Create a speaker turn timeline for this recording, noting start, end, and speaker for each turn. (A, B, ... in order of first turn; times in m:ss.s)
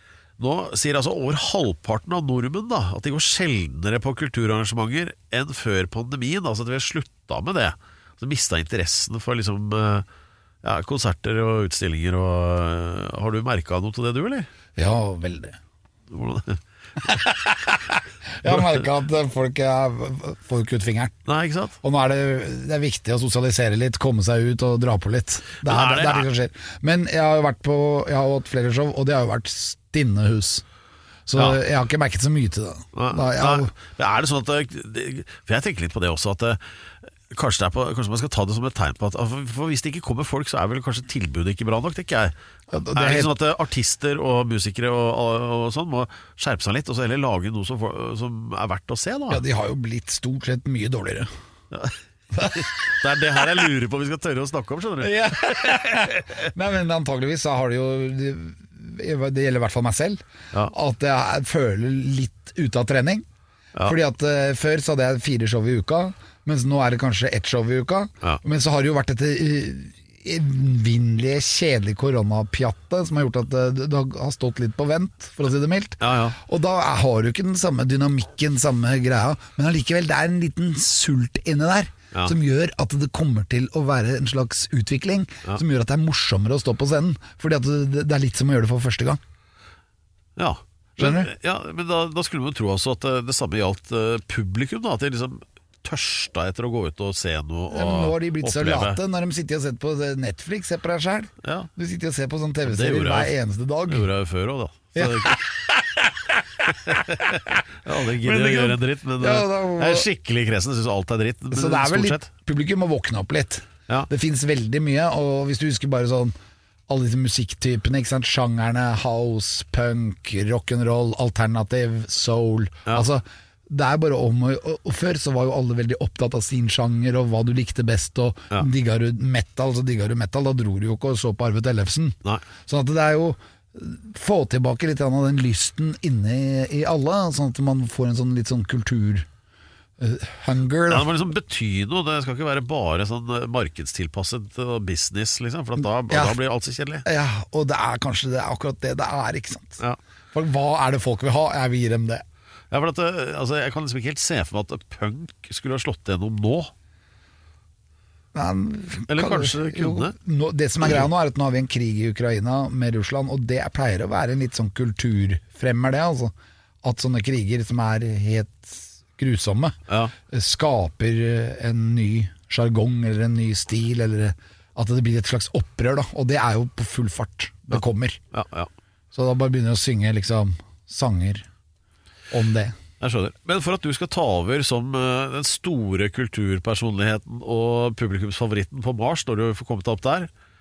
0:00.4-0:10.0 A
0:10.6-0:14.5 A
0:14.8-0:15.6 B
0:16.1-0:16.6 A
0:17.0-0:21.2 B
0:21.2-0:21.8 A
0:21.8-0:30.6 B
0:25.6-0:26.3 A
0:31.3-0:33.7 B
0:31.3-0:31.6 A
0:32.9-0:36.6 A
0:37.3-0:42.3 A
0:42.7-0:43.4 B
0:42.9-0:49.4 A
0:49.3-0:51.3 B
0:51.7-0:56.4 A
0:52.3-0:52.7 B
0:55.0-1:03.2 B
1:03.8-1:29.2 B
1:16.0-1:16.4 A
1:30.4-1:39.0 A
1:31.0-1:31.3 B
1:37.7-1:44.1 B
1:42.7-1:43.3 A
1:43.9-1:45.4 A
1:44.9-1:47.0 B
1:46.7-1:52.3 A
1:47.9-1:50.1 B
1:51.5-1:56.4 B
1:56.9-2:19.3 B
2:20.0-2:21.1 B
2:20.9-2:27.0 A
2:26.1-2:26.4 B
2:27.0-2:29.8 B
2:30.3-2:32.2 B
2:32.7-2:36.7 A
2:38.3-2:49.8 B
2:39.1-2:40.1 A
2:49.9-2:50.1 A
2:50.3-2:58.2 B
2:57.7-2:58.7 A
2:59.1-3:01.4 B
3:02.3-3:02.8 B
3:03.0-3:10.3 A